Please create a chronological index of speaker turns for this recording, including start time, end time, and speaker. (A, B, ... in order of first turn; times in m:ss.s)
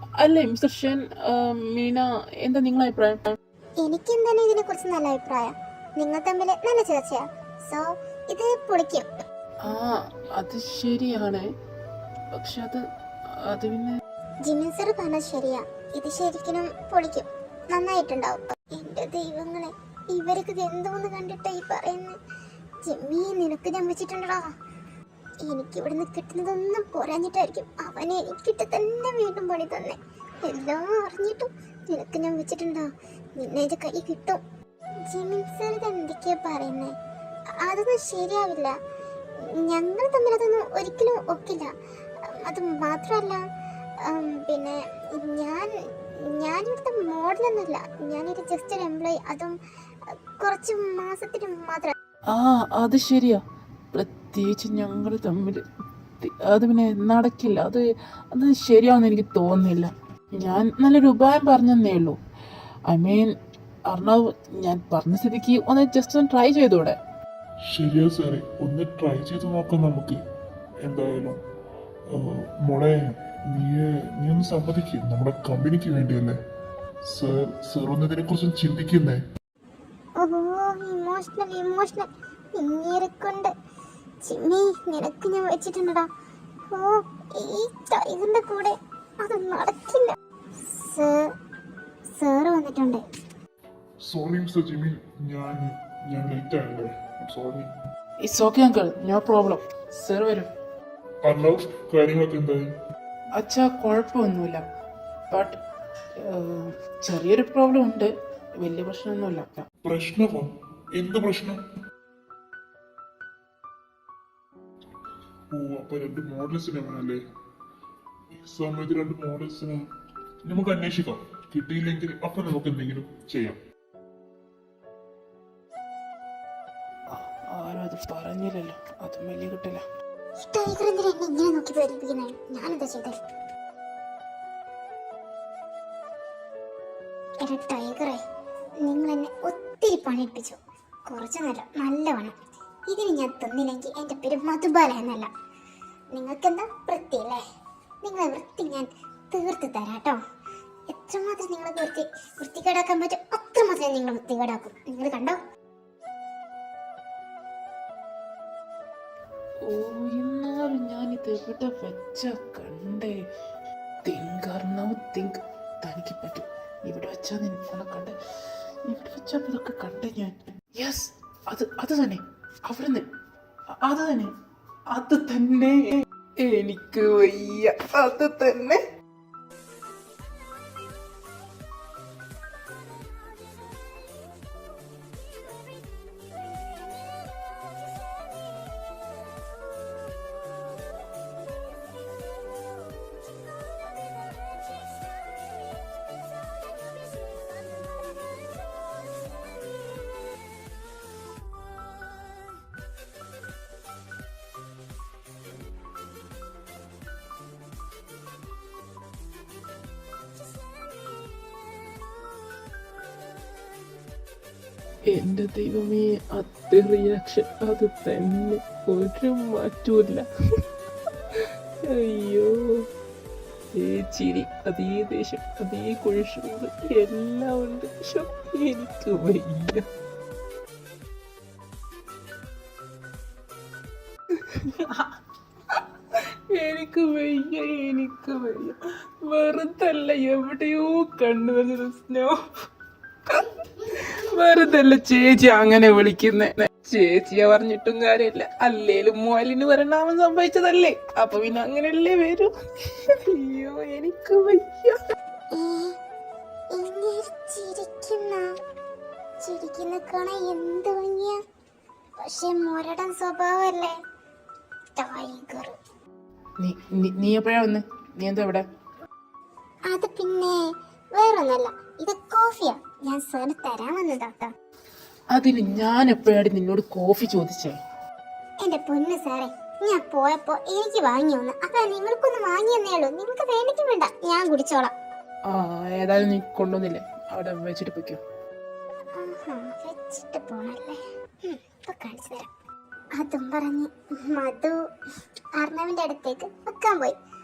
0:00.2-0:03.4 A
0:03.8-0:09.2 B
0:09.6-0:11.5 A
0:12.4-0:14.0 A
0:14.4-0:22.2 B
0:22.8-0:24.5 B
0:25.4-0:34.4 B
0:35.1-0:37.0 B
0:37.6-0:38.8 B
0:39.4-0:43.4 B
0:44.0-0:49.5 B
0:50.1-0:52.0 B
0:52.3-0:55.6 A
0:56.2-1:02.2 A
1:02.9-1:03.3 A
1:03.9-1:07.0 A
1:07.7-1:10.2 C
1:10.8-1:11.4 C
1:12.1-1:16.4 C
1:17.0-1:19.2 C
1:20.2-1:23.5 B
1:24.2-1:26.1 B
1:26.7-1:31.3 B
1:32.1-1:33.0 B
1:34.0-1:37.7 C
1:38.2-1:40.5 A
1:41.2-1:42.7 C
1:43.4-1:44.6 A
1:45.3-1:45.6 A
1:46.2-1:49.7 A
1:49.8-1:51.6 C
1:55.5-1:57.2 C
1:58.3-1:59.8 C
2:00.4-2:03.6 C
2:07.1-2:09.8 A
2:10.4-2:13.2 B
2:17.4-2:18.2 B
2:18.8-2:22.4 B
2:22.9-2:25.3 B
2:26.1-2:27.4 B
2:28.0-2:30.2 B
2:30.9-2:35.4 B
2:39.6-2:43.2 A
2:44.0-2:48.2 A
2:48.9-2:53.1 A
2:53.8-2:54.3 A
2:54.9-2:58.8 A
3:35.1-3:40.3 A
3:41.4-3:42.9 A
3:43.7-3:49.9 A
3:54.4-3:55.1 A
3:56.1-4:02.4 A
4:03.3-4:15.0 A
4:15.5-4:16.0 B
4:16.7-4:18.5 B
4:19.4-4:21.4 B
4:22.2-4:24.0 B
4:25.0-4:25.8 B
4:26.6-4:28.7 A
4:29.9-4:34.5 B
4:35.3-4:37.8 A
4:38.6-4:44.9 B
4:45.5-4:48.2 A
4:49.2-4:52.5 B
4:53.2-4:54.8 B
4:55.6-4:57.2 B